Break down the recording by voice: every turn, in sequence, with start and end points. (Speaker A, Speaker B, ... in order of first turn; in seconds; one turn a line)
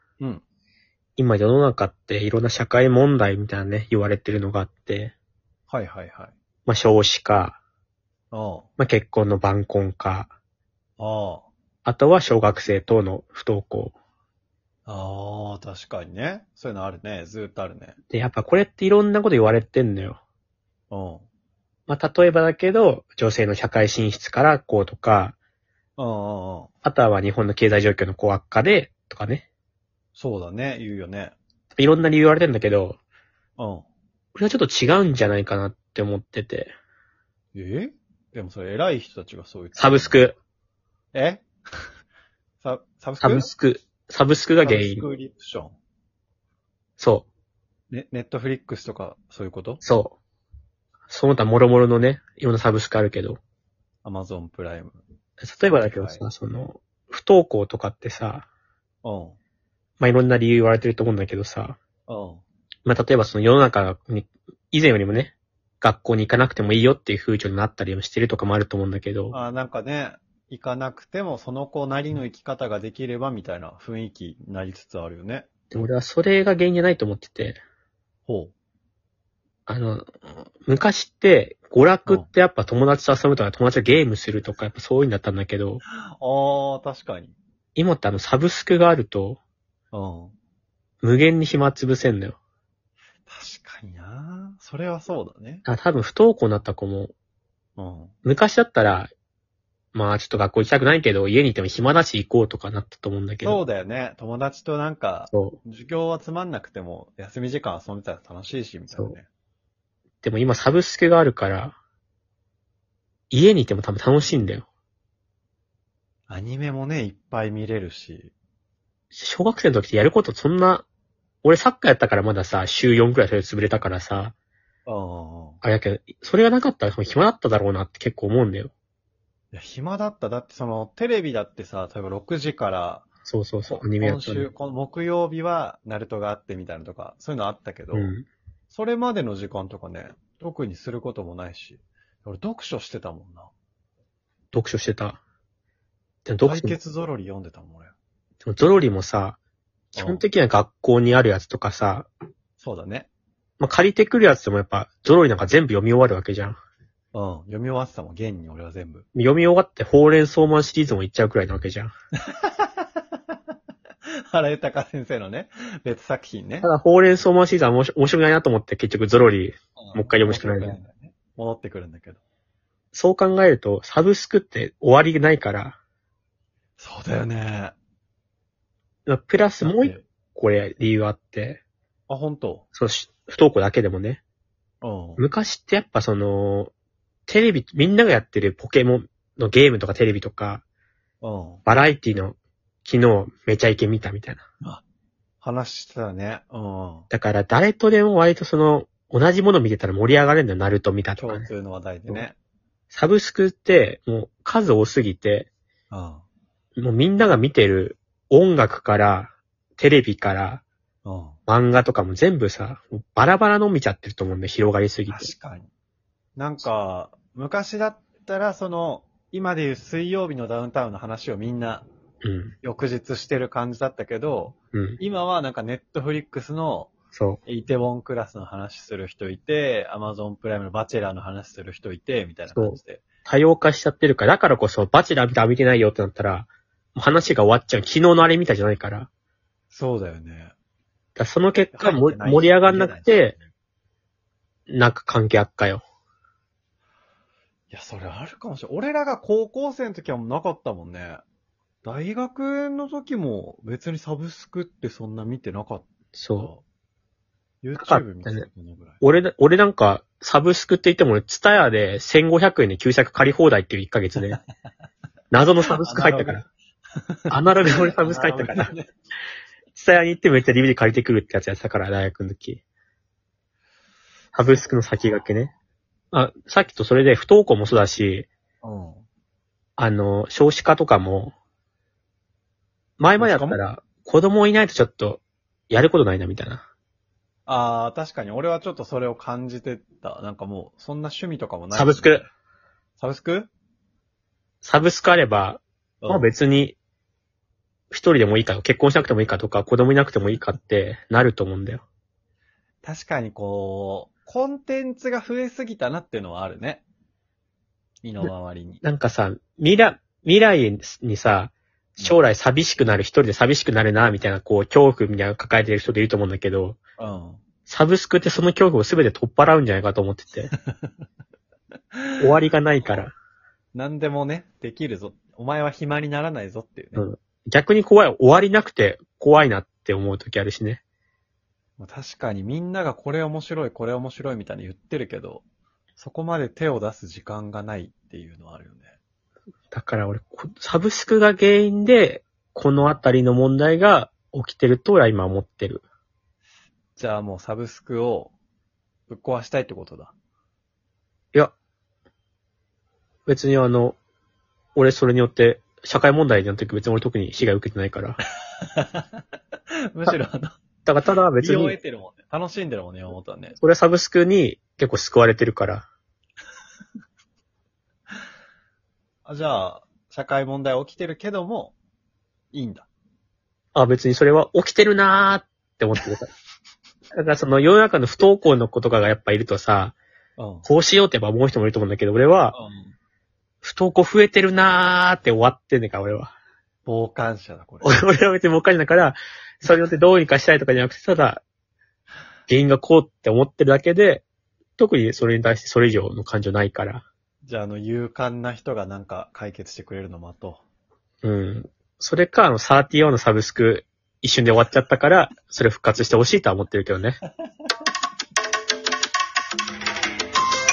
Speaker A: 1.2-5.1
Speaker B: 5.7-6.3
Speaker A: 6.7-7.6
Speaker B: 8.3-8.7
Speaker A: 8.8-10.3
Speaker B: 11.0-11.5
Speaker A: 11.8-13.9
Speaker B: 14.8-18.0
Speaker A: 18.1-20.2
Speaker B: 20.9-21.2
Speaker A: 21.9-25.3
Speaker B: 26.0-26.7
Speaker A: 26.8-29.4
Speaker B: 30.1-31.3
Speaker A: 31.7-33.0
Speaker B: 33.6-33.9
Speaker A: 34.3-36.7
Speaker B: 37.5-40.2
Speaker A: 39.8-40.4
Speaker B: 41.1-41.9
Speaker B: 42.6-43.5
Speaker A: 43.2-45.0
Speaker B: 44.6-45.8
Speaker A: 47.0-47.2
Speaker B: 47.9-49.8
Speaker A: 49.8-50.1
Speaker A: 51.1-53.4
Speaker B: 54.0-55.0
Speaker A: 55.4-58.5
Speaker B: 55.6-56.2
Speaker B: 59.0-59.4
Speaker A: 60.0-61.8
Speaker B: 62.1-62.4
Speaker A: 62.9-69.3
Speaker B: 69.3-75.5
Speaker A: 75.7-77.6
Speaker B: 78.3-78.5
Speaker A: 79.7-80.1
Speaker A: 80.6-85.8
Speaker B: 85.9-87.3
Speaker A: 87.8-89.4
Speaker B: 89.9-90.3
Speaker A: 91.0-92.4
Speaker B: 93.3-95.6
Speaker A: 95.7-97.1
Speaker B: 97.8-98.1
Speaker A: 98.2-99.1
Speaker A: 99.9-103.6
Speaker B: 103.4-109.3
Speaker A: 105.3-105.6
Speaker A: 110.2-111.8
Speaker A: 113.3-114.7
Speaker B: 116.3-118.3
Speaker A: 119.1-120.8
Speaker A: 121.4-124.3
Speaker B: 124.8-125.6
Speaker A: 125.6-128.7
Speaker B: 129.5-133.1
Speaker A: 133.2-134.5
Speaker B: 133.7-138.1
Speaker A: 137.9-138.2
Speaker B: 138.7-143.5
Speaker A: 144.5-145.2
Speaker A: 146.2-146.8
Speaker B: 146.4-147.9
Speaker A: 148.4-149.4
Speaker B: 149.9-150.2
Speaker A: 150.0-152.1
Speaker B: 152.6-153.1
Speaker A: 153.6-156.6
Speaker B: 157.1-159.1
Speaker A: 159.1-161.9
Speaker B: 162.3-163.3
Speaker B: 164.3-166.7
Speaker A: 166.6-170.8
Speaker B: 169.8-172.2
Speaker A: 172.9-175.8
Speaker B: 176.8-177.7
Speaker A: 179.1-181.6
Speaker B: 179.6-180.0
Speaker B: 182.1-182.6
Speaker A: 182.7-184.2
Speaker B: 184.8-185.2
Speaker A: 185.2-186.7
Speaker A: 187.3-190.6
Speaker B: 191.2-191.6
Speaker A: 191.6-194.4
Speaker B: 195.4-197.1
Speaker A: 197.1-201.5
Speaker B: 201.2-202.3
Speaker A: 202.9-205.5
Speaker B: 205.9-206.2
Speaker A: 206.8-210.6
Speaker B: 211.0-211.4
Speaker A: 211.5-215.3
Speaker B: 215.1-215.7
Speaker B: 216.3-221.9
Speaker A: 222.2-222.5
Speaker B: 222.6-226.9
Speaker A: 224.7-225.0
Speaker A: 227.1-227.4
Speaker B: 227.4-233.1
Speaker A: 232.5-239.1
Speaker B: 239.7-240.5
Speaker A: 241.2-243.3
Speaker B: 241.7-243.5
Speaker A: 244.7-245.8
Speaker B: 247.7-251.2
Speaker B: 251.8-256.6
Speaker A: 256.1-256.5
Speaker B: 257.6-259.0
Speaker A: 257.8-258.5
Speaker A: 259.0-264.4
Speaker A: 265.3-266.4
Speaker B: 265.8-268.9
Speaker A: 267.3-268.7
Speaker A: 269.7-272.6
Speaker A: 274.3-275.5
Speaker A: 276.1-278.3
Speaker B: 278.6-279.0
Speaker A: 279.8-281.3
Speaker A: 283.0-286.6
Speaker B: 283.2-283.6
Speaker B: 287.5-292.2
Speaker A: 291.7-292.3
Speaker B: 293.0-293.5
Speaker A: 294.6-296.8
Speaker B: 296.0-296.3
Speaker A: 297.9-301.8
Speaker B: 302.8-306.8
Speaker B: 308.0-308.8
Speaker A: 308.8-316.8
Speaker B: 317.0-317.4
Speaker A: 317.6-320.5
Speaker B: 320.5-320.9
Speaker B: 321.9-323.1
Speaker A: 322.2-323.1
Speaker B: 323.7-327.0
Speaker A: 326.9-330.8
Speaker B: 331.8-335.4
Speaker B: 336.0-338.9
Speaker A: 339.7-345.8
Speaker B: 346.9-348.3
Speaker B: 349.1-350.1
Speaker A: 353.2-354.0
Speaker A: 354.7-358.2
Speaker B: 358.8-359.2
Speaker B: 359.9-360.5
Speaker A: 360.8-361.8
Speaker B: 361.4-363.6
Speaker A: 363.6-365.9
Speaker B: 369.2-371.7
Speaker B: 372.5-372.9
Speaker A: 373.7-376.3
Speaker A: 377.1-379.9
Speaker B: 380.4-380.7
Speaker A: 380.6-382.6
Speaker B: 382.5-382.9
Speaker A: 383.6-386.3
Speaker B: 386.8-387.9
Speaker A: 387.8-391.4
Speaker A: 392.5-394.2
Speaker A: 394.8-397.0
Speaker B: 397.4-400.6
Speaker A: 401.2-407.2